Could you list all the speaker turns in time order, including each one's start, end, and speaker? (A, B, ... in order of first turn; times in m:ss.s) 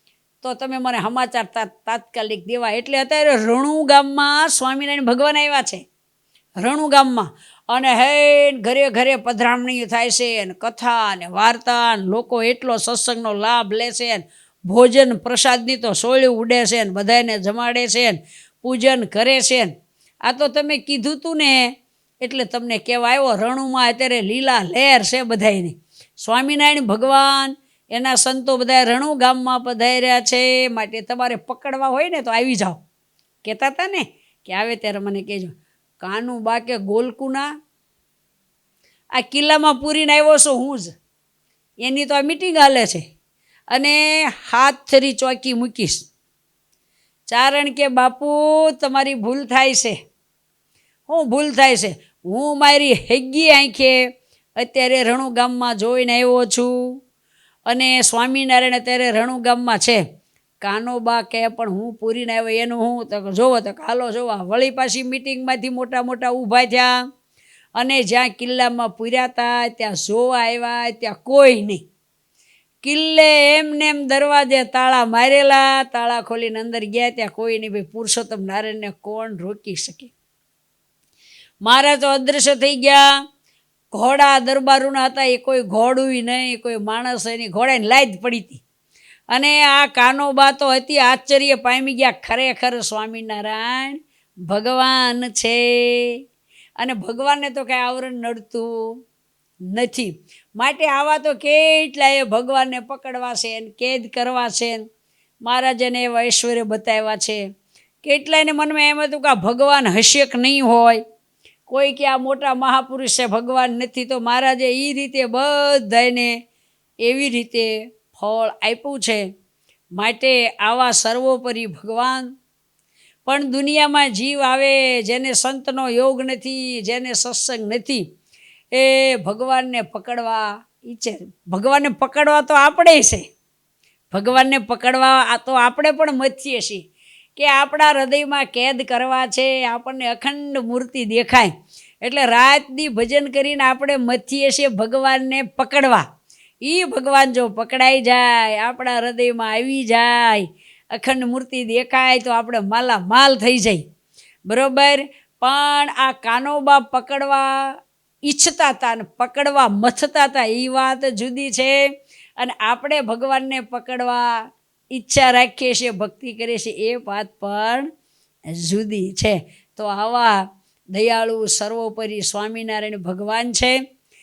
0:00.4-0:05.8 A
0:06.6-0:19.7 A
0:20.2-0:32.8 A
0:33.4-0:37.5 A
0:39.1-0:40.9 A
0:41.8-0:43.0 A
0:43.7-0:46.0 A
0:47.3-0:50.0 A
0:51.1-0:54.0 A
0:54.6-0:56.7 A
0:57.7-1:00.0 A
1:00.6-1:06.9 A
1:07.8-1:11.8 A
1:12.8-1:20.1 A
1:21.6-1:23.0 A
1:23.9-1:28.6 A
1:29.3-1:36.2 A
1:36.8-1:38.7 A
1:39.7-1:44.8 A
1:45.4-1:47.4 A
1:48.0-1:51.0 A
1:51.7-1:56.3 A
1:57.0-1:59.2 A
2:00.0-2:02.3 A
2:03.2-2:08.0 A
2:08.7-2:13.2 A
2:14.1-2:16.8 A
2:17.4-2:26.0 A
2:26.6-2:33.8 A
2:34.5-2:37.5 A
2:38.2-2:41.8 A
2:42.4-2:44.3 A
2:44.9-2:47.9 A
2:48.5-2:50.4 A
2:50.9-2:53.8 A